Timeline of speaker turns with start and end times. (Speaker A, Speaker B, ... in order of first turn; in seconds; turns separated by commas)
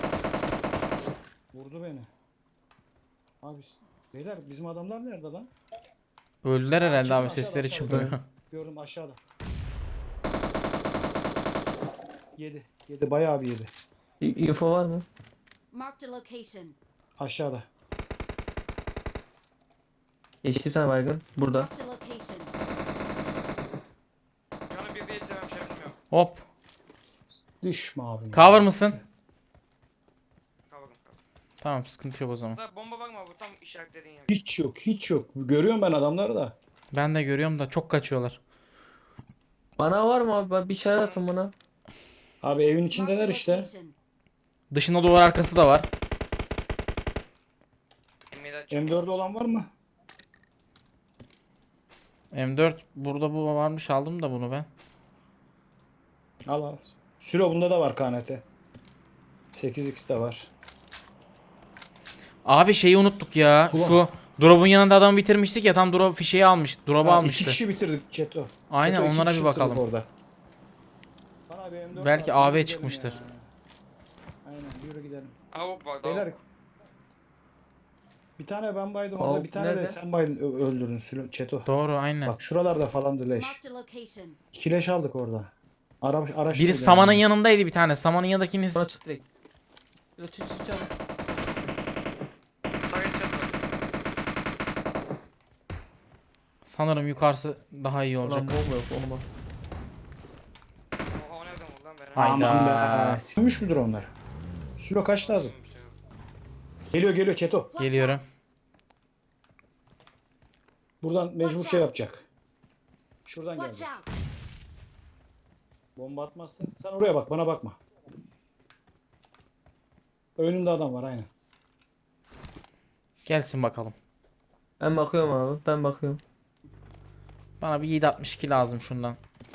Speaker A: 1.5-2.1, Speaker A: 3.4-5.5, Speaker B: 6.4-8.2, Speaker A: 6.8-9.2, Speaker C: 7.8-8.2, Speaker A: 12.4-13.7, Speaker C: 14.2-15.1, Speaker D: 15.7-16.8, Speaker A: 17.2-17.7, Speaker C: 20.4-21.7, Speaker D: 21.5-22.5, Speaker E: 24.7-25.9, Speaker B: 26.1-26.4, Speaker A: 27.6-29.0, Speaker B: 28.3-29.0, Speaker E: 30.7-31.1, Speaker B: 31.6-32.6, Speaker E: 32.5-34.3, Speaker A: 34.3-36.5, Speaker B: 36.9-38.4, Speaker C: 39.8-41.5, Speaker E: 40.9-41.2, Speaker A: 42.4-43.7, Speaker D: 42.9-43.9, Speaker B: 44.7-45.9, Speaker E: 48.3-49.0, Speaker A: 48.7-49.7, Speaker B: 52.3-54.7, Speaker A: 56.5-58.4, Speaker A: 59.5-60.5, Speaker B: 62.4-67.6, Speaker A: 63.7-64.0, Speaker A: 67.0-70.1, Speaker B: 68.7-69.8, Speaker A: 71.5-73.5, Speaker B: 71.9-73.2, Speaker A: 74.4-75.3, Speaker E: 75.5-76.3, Speaker A: 76.0-76.4, Speaker A: 78.4-81.7, Speaker C: 79.2-80.0, Speaker B: 81.7-82.3, Speaker A: 82.2-83.6, Speaker D: 83.3-84.4, Speaker A: 84.5-87.3, Speaker B: 86.5-88.8, Speaker C: 88.7-89.2, Speaker C: 90.2-90.9, Speaker E: 92.9-93.6, Speaker B: 96.6-98.5, Speaker C: 98.2-99.2, Speaker E: 101.1-102.3, Speaker B: 102.1-103.2, Speaker A: 102.2-104.1, Speaker A: 104.8-105.5, Speaker E: 105.2-106.0, Speaker A: 106.9-107.7, Speaker D: 107.8-108.2, Speaker B: 107.8-108.2, Speaker A: 111.0-112.2, Speaker D: 111.4-111.9, Speaker A: 113.2-113.9, Speaker D: 113.5-114.1, Speaker A: 116.0-117.8, Speaker A: 120.3-121.3, Speaker B: 123.2-124.0, Speaker C: 124.8-126.2, Speaker B: 127.6-129.2